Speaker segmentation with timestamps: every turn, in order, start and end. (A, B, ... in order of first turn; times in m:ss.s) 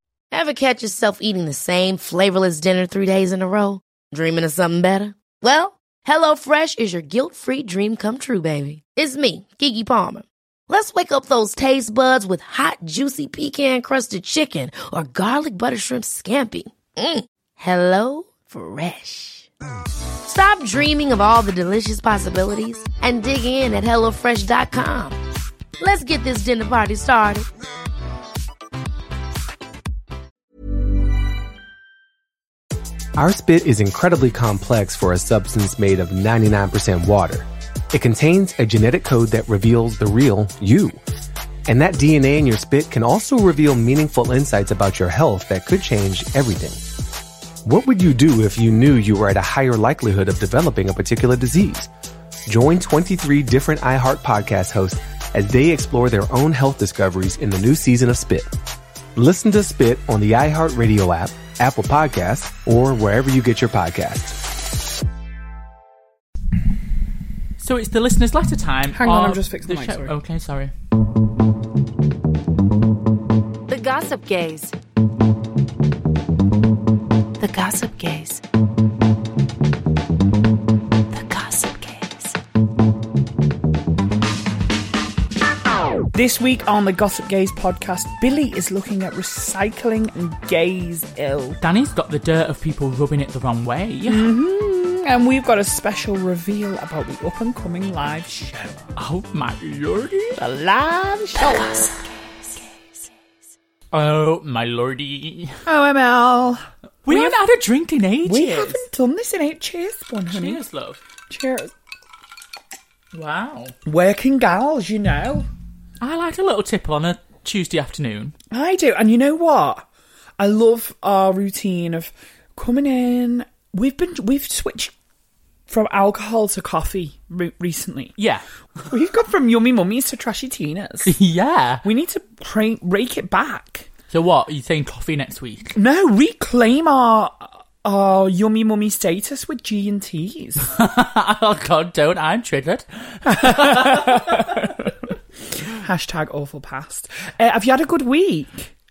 0:00.3-0:19.5 A
0:20.2-0:25.2 A
0:25.8-0:27.5 A
0:33.2-0:41.0 B
0:41.7-0:46.9 B
0:47.6-0:51.9 B
0:52.5-0:58.5 B
0:59.2-1:04.4 B
1:07.6-1:10.7 C
1:08.9-1:10.1 D
1:13.7-1:14.7 E
1:17.4-1:18.3 E
1:21.2-1:22.0 E
1:26.1-1:31.6 D
1:31.6-1:34.3 C
1:34.0-1:38.8 D
1:39.0-1:40.4 C
1:40.4-1:41.8 D
1:43.9-1:45.6 C
1:45.6-1:47.4 D
1:47.0-1:48.8 C
1:48.2-1:50.6 D
1:50.3-1:51.0 C
1:51.3-1:51.7 D
1:53.1-1:53.7 C
1:53.8-1:55.5 D
1:56.0-1:58.3 C
1:58.5-1:59.8 D
2:00.4-2:04.9 D
2:05.7-2:08.2 D
2:08.2-2:08.4 C
2:08.9-2:11.1 D
2:11.0-2:11.8 C
2:11.8-2:13.9 D
2:14.1-2:15.7 C
2:15.7-2:20.6 D
2:20.6-2:24.7 C
2:23.2-2:28.7 D